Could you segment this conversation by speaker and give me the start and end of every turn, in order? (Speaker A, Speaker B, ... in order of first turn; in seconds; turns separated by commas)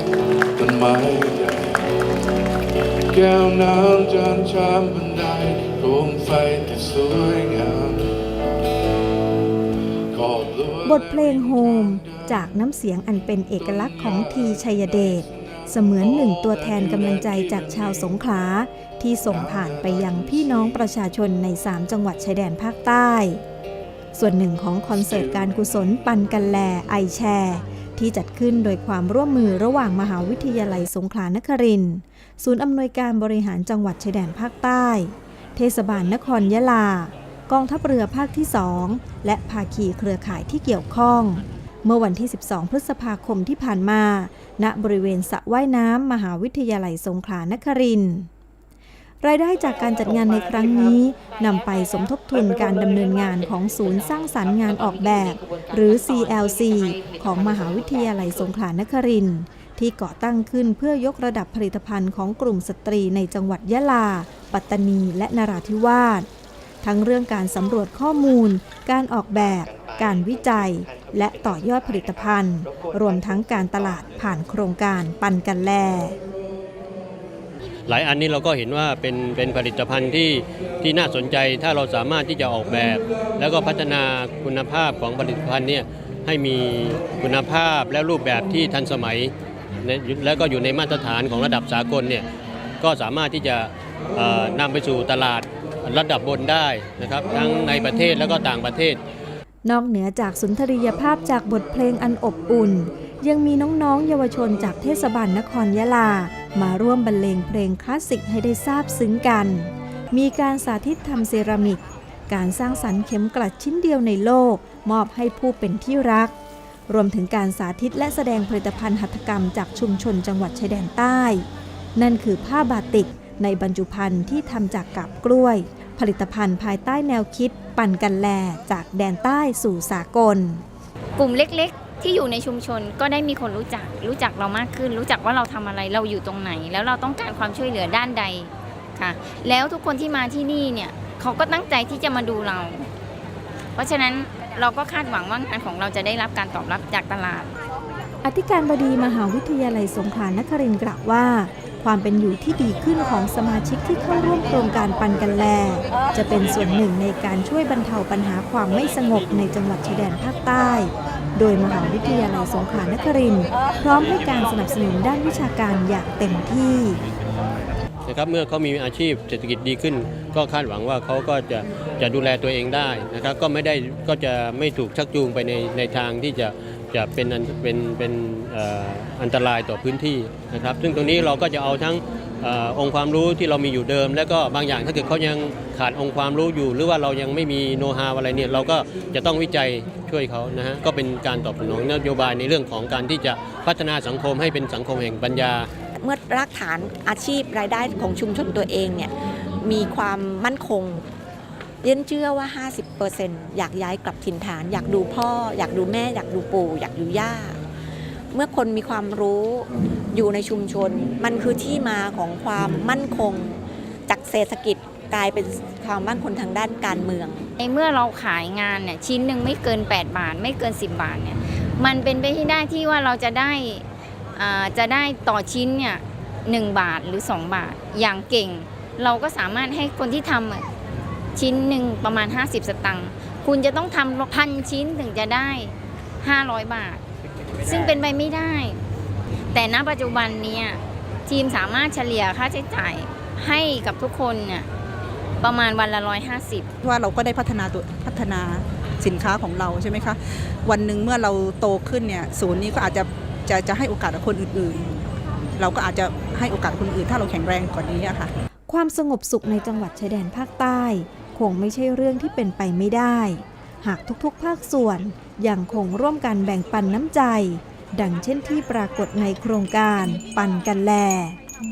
Speaker A: 0.6-1.9, Speaker A: 3.1-8.2, Speaker A: 10.1-12.5, Speaker B: 10.8-23.4, Speaker A: 13.6-18.2, Speaker A: 19.3-20.9, Speaker B: 24.1-48.3, Speaker A: 24.9-25.6, Speaker B: 49.2-66.3, Speaker B: 66.8-76.2, Speaker C: 77.9-92.3, Speaker C: 92.8-99.0, Speaker B: 99.7-116.3, Speaker B: 116.9-130.6, Speaker D: 131.2-142.9, Speaker D: 143.8-147.6, Speaker B: 148.2-167.0, Speaker C: 168.1-195.7, Speaker E: 195.9-201.1, Speaker E: 201.8-207.6, Speaker E: 208.3-217.5, Speaker D: 217.6-230.7, Speaker D: 231.3-237.0, Speaker D: 237.6-238.8, Speaker D: 239.5-244.7, Speaker D: 245.4-246.7, Speaker F: 246.8-254.9, Speaker F: 255.6-258.3, Speaker B: 258.7-271.4